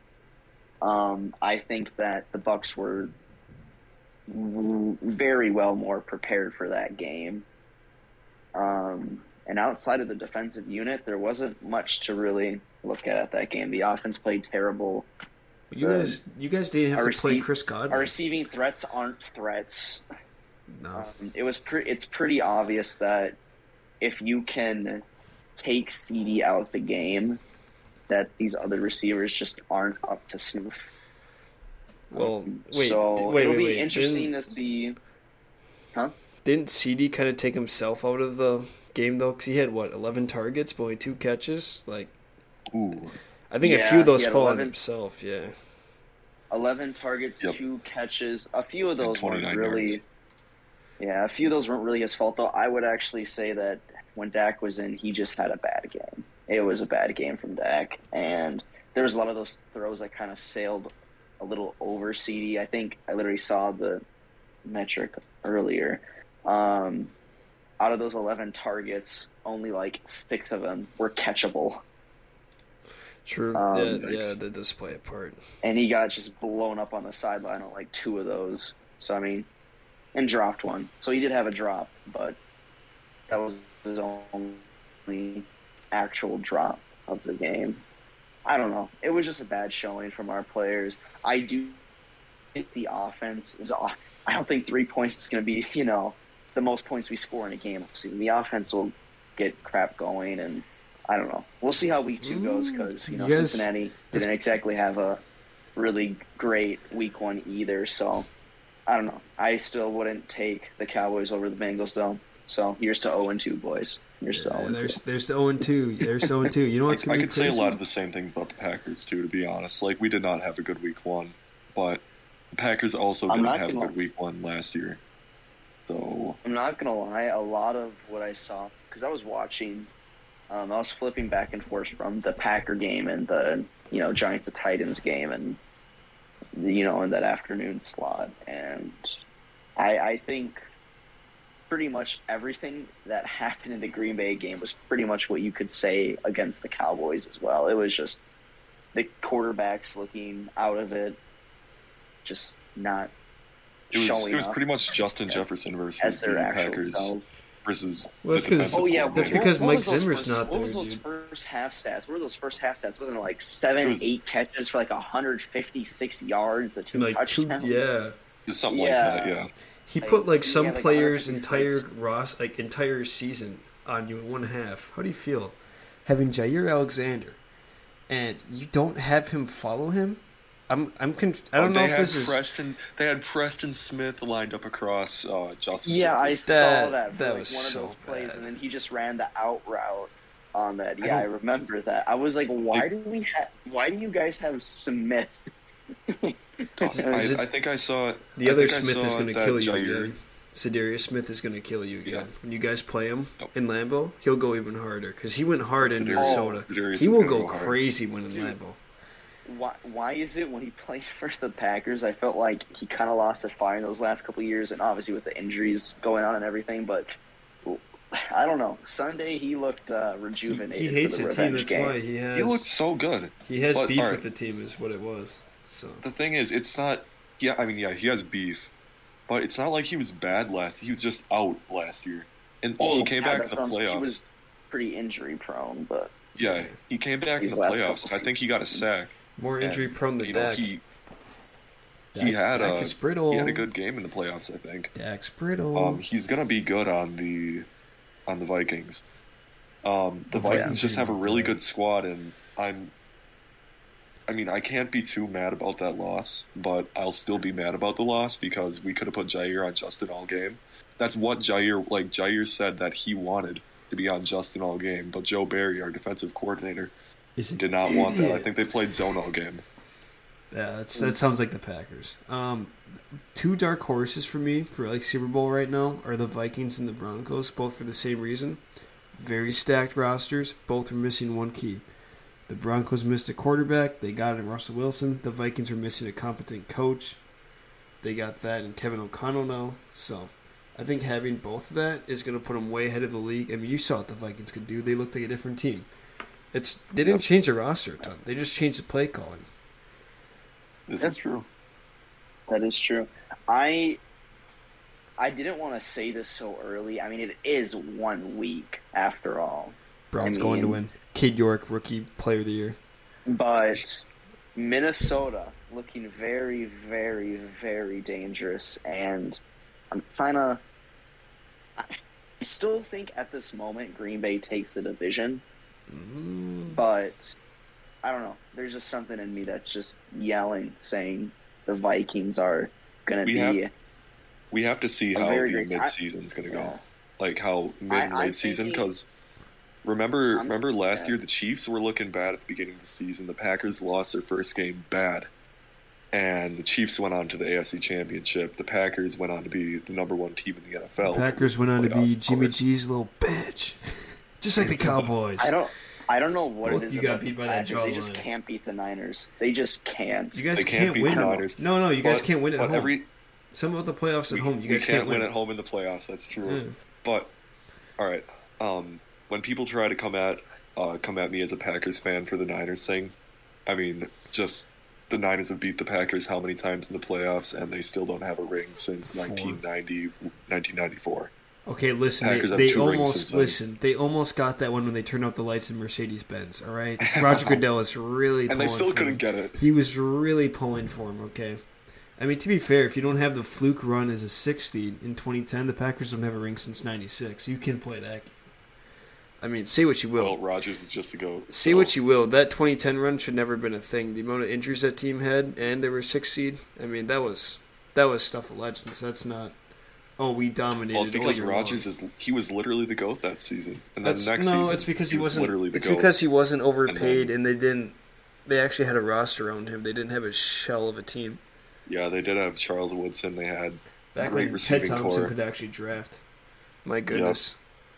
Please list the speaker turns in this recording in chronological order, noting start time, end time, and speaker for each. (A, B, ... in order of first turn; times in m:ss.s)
0:00.8-0:03.1 A
0:04.3-0:07.5 A
0:08.6-0:15.1 A
0:15.7-0:18.1 B
0:15.8-0:16.2 A
0:16.9-0:20.0 A
0:20.7-0:21.1 B
0:21.0-0:23.4 A
0:24.0-0:25.0 A
0:25.6-0:27.4 A
0:28.1-0:30.9 A
0:32.1-0:34.4 B
0:32.2-0:35.0 A
0:36.4-0:42.1 B
0:42.7-0:43.2 C
0:43.5-0:45.5 B
0:43.6-0:44.8 A
0:46.5-0:50.0 A
0:49.0-0:50.0 C
0:51.0-1:04.0 A
1:04.7-1:07.1 A
1:07.8-1:11.8 A
1:13.2-1:15.4 B
1:13.5-1:14.3 A
1:15.6-1:19.5 A
1:20.2-1:22.4 A
1:23.3-1:27.8 A
1:28.5-1:31.8 A
1:32.6-1:45.2 A
1:42.2-1:44.3 B
1:45.8-1:48.3 A
1:48.9-1:55.0 A
1:54.3-1:57.8 B
1:56.9-2:05.0 C
2:03.3-2:03.9 A
2:05.9-2:06.4 C
2:06.4-2:09.9 A
2:10.5-2:15.6 A
2:16.6-2:19.2 A
2:19.8-2:20.6 A
2:21.7-2:28.2 A
2:29.0-2:31.2 A
2:32.2-2:33.1 A
2:33.9-2:34.6 A
2:33.9-2:37.1 C
2:36.0-2:37.2 A
2:37.6-2:39.5 C
2:38.2-2:41.0 B
2:38.7-2:47.8 A
2:43.8-2:44.1 C
2:46.9-2:48.2 B
2:48.5-2:49.5 C
2:48.7-2:49.4 A
2:49.9-2:57.4 B
2:50.0-2:51.8 A
2:58.1-3:02.4 B
3:01.6-3:06.5 C
3:05.8-3:15.4 A
3:06.5-3:08.5 B
3:16.1-3:17.3 A
3:16.8-3:20.1 C
3:17.0-3:17.4 B
3:18.4-3:28.8 B
3:25.8-3:27.8 C
3:26.2-3:26.6 A
3:29.5-3:37.1 A
3:37.6-3:42.0 A
3:40.5-3:42.7 B
3:42.4-3:44.2 C
3:43.4-3:46.0 B
3:46.0-3:48.7 C
3:49.3-3:54.2 C
3:52.8-3:56.1 A
3:56.4-4:00.8 C
3:56.4-3:56.8 B
3:57.4-3:58.8 A
3:59.4-4:00.7 B
4:02.1-4:03.7 B
4:02.2-4:04.9 C
4:04.9-4:06.0 B
4:05.8-4:07.7 C
4:08.3-4:09.0 C
4:09.8-4:12.9 C
4:10.3-4:11.6 B
4:10.5-4:10.8 A
4:14.3-4:26.9 C
4:27.4-4:28.5 B
4:27.6-4:29.6 C
4:30.5-4:32.8 B
4:33.3-4:38.6 B
4:39.1-4:41.8 B
4:42.5-4:47.2 B
4:48.0-4:55.9 B
4:56.5-4:59.5 B
5:00.9-5:01.5 C
5:02.5-5:04.0 A
5:05.2-5:10.8 A
5:10.1-5:12.8 B
5:13.3-5:19.4 A
5:19.9-5:20.6 A
5:21.8-5:25.4 A
5:25.9-5:26.8 B
5:26.7-5:27.4 A
5:28.0-5:33.7 A
5:33.2-5:33.6 C
5:34.5-5:39.1 C
5:35.1-5:35.9 A
5:36.5-5:36.8 A
5:37.9-5:38.9 A
5:39.8-5:45.3 C
5:40.4-5:41.2 A
5:46.1-5:52.6 C
5:51.0-5:55.5 B
5:54.6-5:55.1 C
5:55.4-6:00.4 A
5:56.6-5:58.3 B
6:00.3-6:03.0 B
6:00.6-6:03.1 C
6:01.1-6:01.3 A
6:03.5-6:05.3 B
6:04.3-6:07.3 C
6:06.4-6:06.7 B
6:08.0-6:13.1 C
6:13.7-6:21.3 C
6:19.1-6:19.6 B
6:21.7-6:31.6 B
6:22.2-6:23.6 C
6:27.0-6:27.6 C
6:28.5-6:29.6 C
6:32.2-6:38.3 B
6:39.4-6:40.4 B
6:40.2-6:41.9 C
6:41.5-6:49.6 B
6:50.2-6:51.9 B
6:50.9-6:56.2 C
6:54.0-7:01.4 B
6:56.9-6:57.3 C
7:01.9-7:05.3 C
7:04.2-7:06.2 B
7:06.8-7:07.6 B
7:07.1-7:07.4 C